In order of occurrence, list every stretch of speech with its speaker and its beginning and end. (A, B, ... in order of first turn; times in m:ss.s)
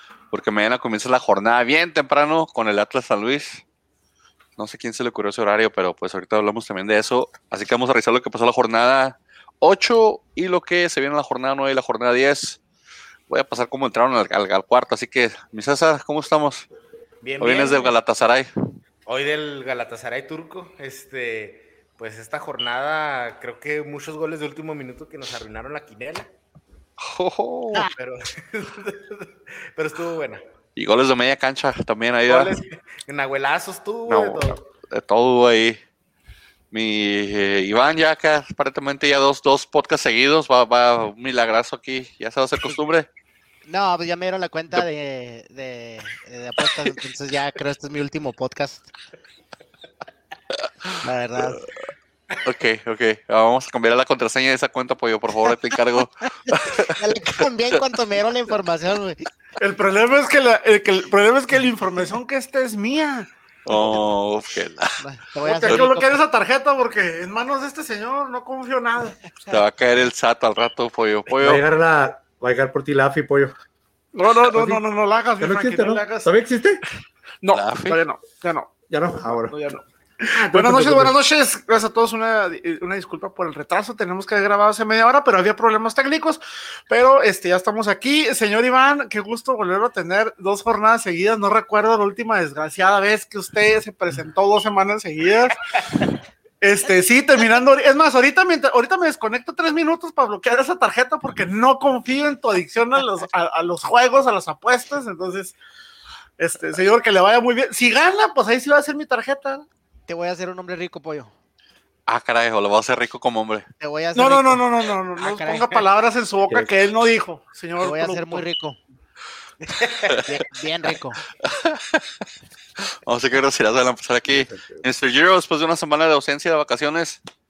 0:00.3-0:03.6 A
0:04.6-0:12.6 A
0:13.3-0:16.7 A
0:17.2-0:17.9 B
0:17.4-0:18.5 A
0:19.0-0:26.3 B
0:27.0-0:27.9 A
0:27.9-0:30.4 B
0:30.8-0:32.5 A
0:32.3-0:34.6 B
0:34.1-0:35.8 A
0:36.7-0:43.1 A
0:43.6-0:48.8 C
0:51.0-0:51.6 C
0:52.4-0:57.4 A
0:56.6-0:59.2 C
0:59.6-1:03.3 D
1:03.6-1:05.0 A
1:05.0-1:06.2 C
1:05.4-1:09.3 D
1:09.5-1:11.6 A
1:11.4-1:13.5 E
1:14.1-1:16.3 D
1:14.5-1:14.8 E
1:15.4-1:16.8 E
1:17.4-1:18.7 D
1:17.5-1:18.0 A
1:18.9-1:19.5 E
1:19.3-1:36.1 D
1:20.3-1:21.2 E
1:36.6-1:45.6 D
1:46.4-1:49.6 D
1:50.1-1:51.3 C
1:52.1-1:53.7 A
1:53.8-1:54.6 C
1:54.1-1:58.4 D
1:55.2-1:55.8 C
1:57.8-1:58.8 C
1:59.8-2:00.1 B
2:00.2-2:01.2 C
2:01.4-2:02.1 A
2:02.8-2:07.2 A
2:04.3-2:04.8 E